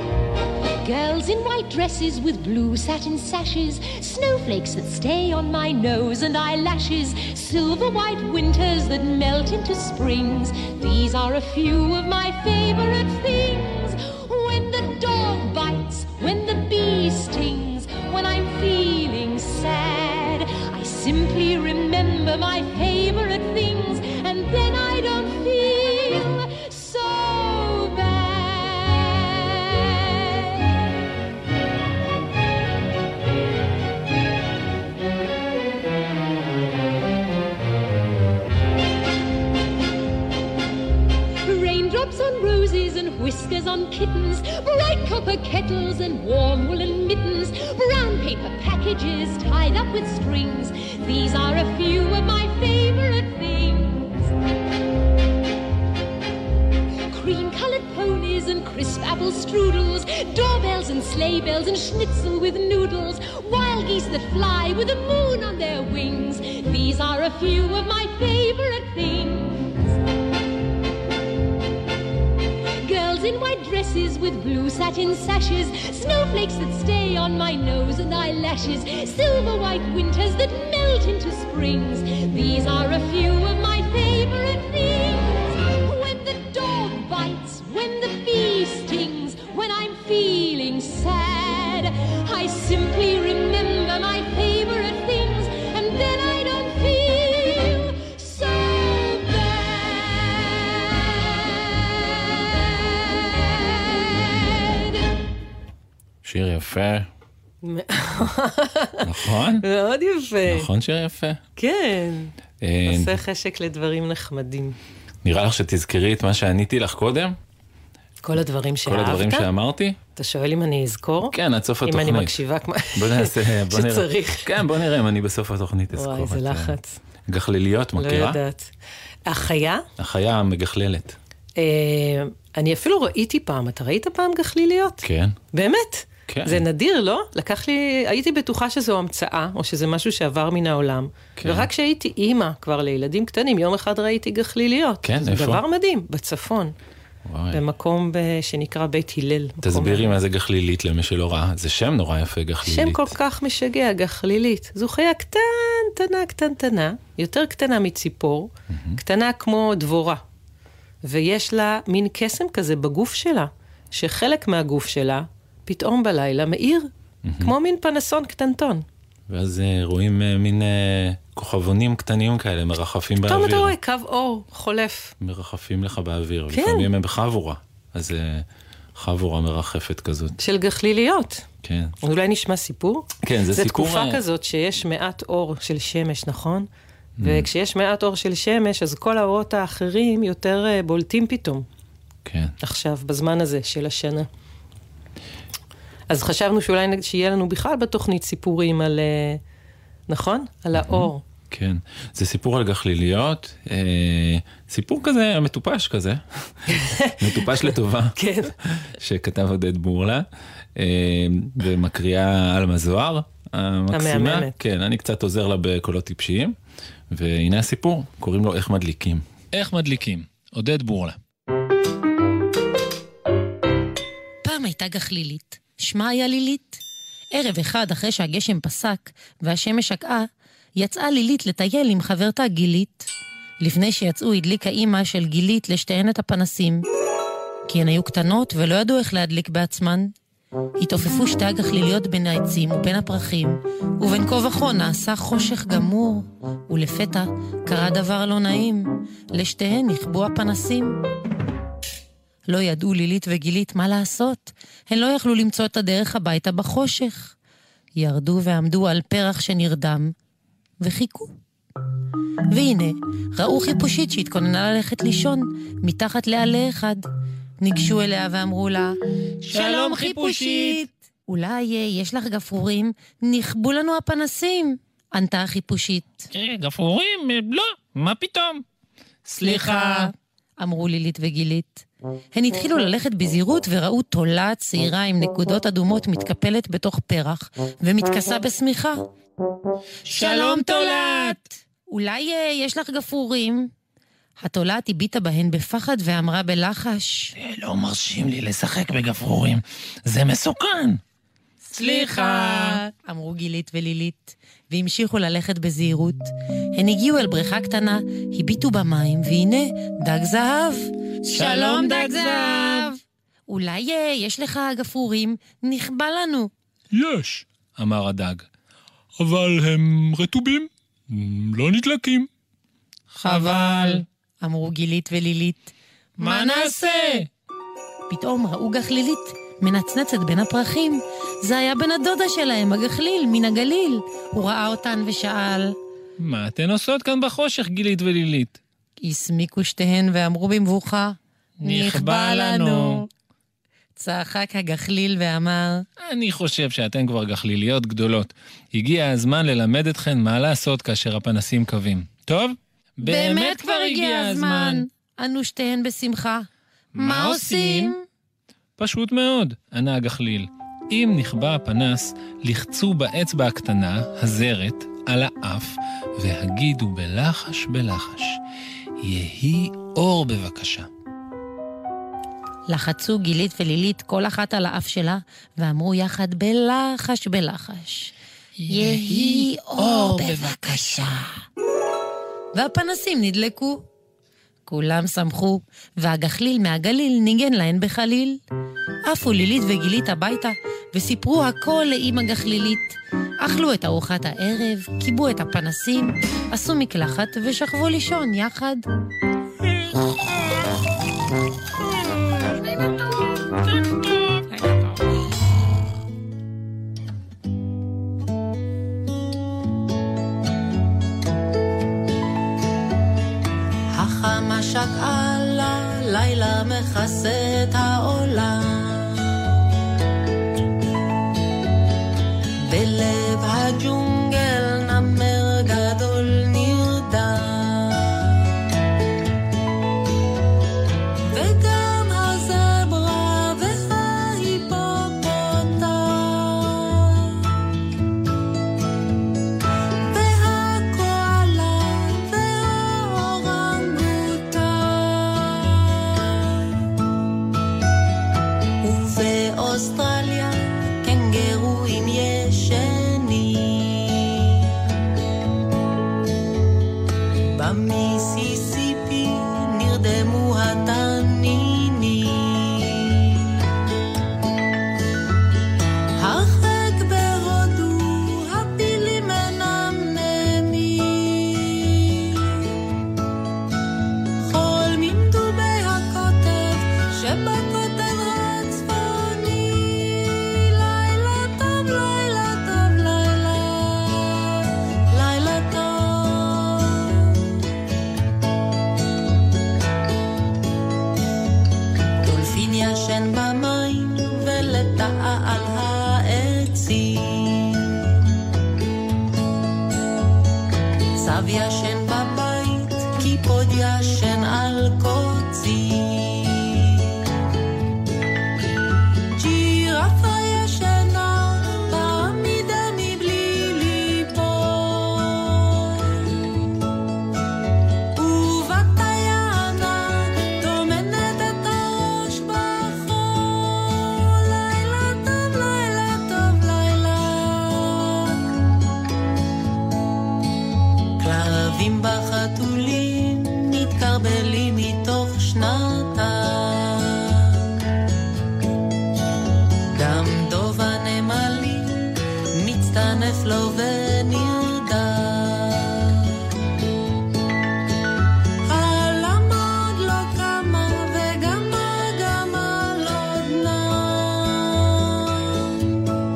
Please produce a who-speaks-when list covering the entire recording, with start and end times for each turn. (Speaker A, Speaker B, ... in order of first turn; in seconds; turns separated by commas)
Speaker A: 0.8-30.9, Speaker A: 41.4-54.3, Speaker A: 57.1-69.8, Speaker A: 72.8-104.6, Speaker B: 106.2-107.1, Speaker C: 107.6-109.1, Speaker B: 109.0-109.7, Speaker C: 109.6-110.7, Speaker B: 110.5-111.4, Speaker C: 111.6-112.3, Speaker B: 112.6-113.2, Speaker C: 112.9-114.8, Speaker B: 115.2-117.4, Speaker C: 118.2-119.5, Speaker B: 118.9-120.0, Speaker C: 120.2-124.5, Speaker B: 121.3-122.4, Speaker B: 123.0-126.8, Speaker C: 125.9-126.9, Speaker B: 127.3-128.4, Speaker C: 128.0-128.7, Speaker C: 129.3-129.8, Speaker B: 130.0-131.2, Speaker C: 131.6-146.8, Speaker B: 135.0-135.4, Speaker B: 136.3-136.7, Speaker B: 141.4-141.7, Speaker B: 145.0-145.6, Speaker B: 147.3-147.6, Speaker C: 147.5-150.2, Speaker B: 149.6-153.2, Speaker C: 152.6-160.2, Speaker B: 158.7-159.0, Speaker C: 161.0-166.9, Speaker B: 167.3-167.6, Speaker C: 167.4-168.8, Speaker B: 169.3-173.8, Speaker C: 173.3-175.1, Speaker B: 175.2-180.4, Speaker C: 176.5-176.9, Speaker C: 180.4-181.4, Speaker B: 181.6-182.0, Speaker C: 182.0-186.7, Speaker B: 183.2-184.2, Speaker B: 187.2-187.5, Speaker C: 187.2-191.7, Speaker B: 192.2-192.6, Speaker C: 192.6-194.3, Speaker C: 196.1-199.4, Speaker C: 200.1-201.2, Speaker B: 200.7-216.6, Speaker C: 206.7-207.4, Speaker C: 208.2-208.5, Speaker C: 213.9-214.5, Speaker B: 217.1-221.2, Speaker D: 224.4-226.8, Speaker D: 227.3-233.1, Speaker D: 233.6-236.9, Speaker D: 237.7-240.1, Speaker D: 240.8-251.0, Speaker D: 252.5-257.4, Speaker D: 258.0-260.1, Speaker D: 260.8-261.3, Speaker D: 262.5-267.1, Speaker D: 267.6-269.0, Speaker B: 269.4-270.8, Speaker D: 269.5-276.3, Speaker B: 276.3-278.6, Speaker B: 279.2-280.1, Speaker D: 279.4-289.1, Speaker B: 290.1-291.4, Speaker D: 290.1-293.7, Speaker D: 294.4-297.3, Speaker B: 297.4-301.0, Speaker D: 301.7-316.5, Speaker B: 301.8-302.8, Speaker B: 311.3-312.9, Speaker B: 316.9-318.5, Speaker B: 319.2-322.3, Speaker D: 323.2-327.3, Speaker B: 323.2-324.1, Speaker B: 326.2-327.3, Speaker D: 328.1-335.8, Speaker B: 336.2-338.6, Speaker D: 339.0-343.1, Speaker B: 341.6-343.0, Speaker D: 344.0-345.9, Speaker B: 346.0-354.9, Speaker D: 353.0-358.0, Speaker B: 356.9-357.9, Speaker B: 358.8-368.4, Speaker B: 369.0-370.9, Speaker D: 372.7-378.1, Speaker B: 378.6-381.1, Speaker D: 378.7-381.3, Speaker D: 382.5-383.8, Speaker D: 384.7-388.4, Speaker D: 389.1-398.9, Speaker E: 413.9-419.5, Speaker E: 422.6-428.4, Speaker E: 431.3-437.5, Speaker E: 440.1-446.7, Speaker E: 448.8-454.6, Speaker E: 457.5-463.5, Speaker E: 466.2-472.7, Speaker E: 474.5-487.3, Speaker E: 492.2-497.9, Speaker E: 501.1-507.1, Speaker E: 509.3-516.4, Speaker E: 518.1-528.5, Speaker E: 531.2-537.7, Speaker E: 539.9-546.2, Speaker E: 548.6-555.8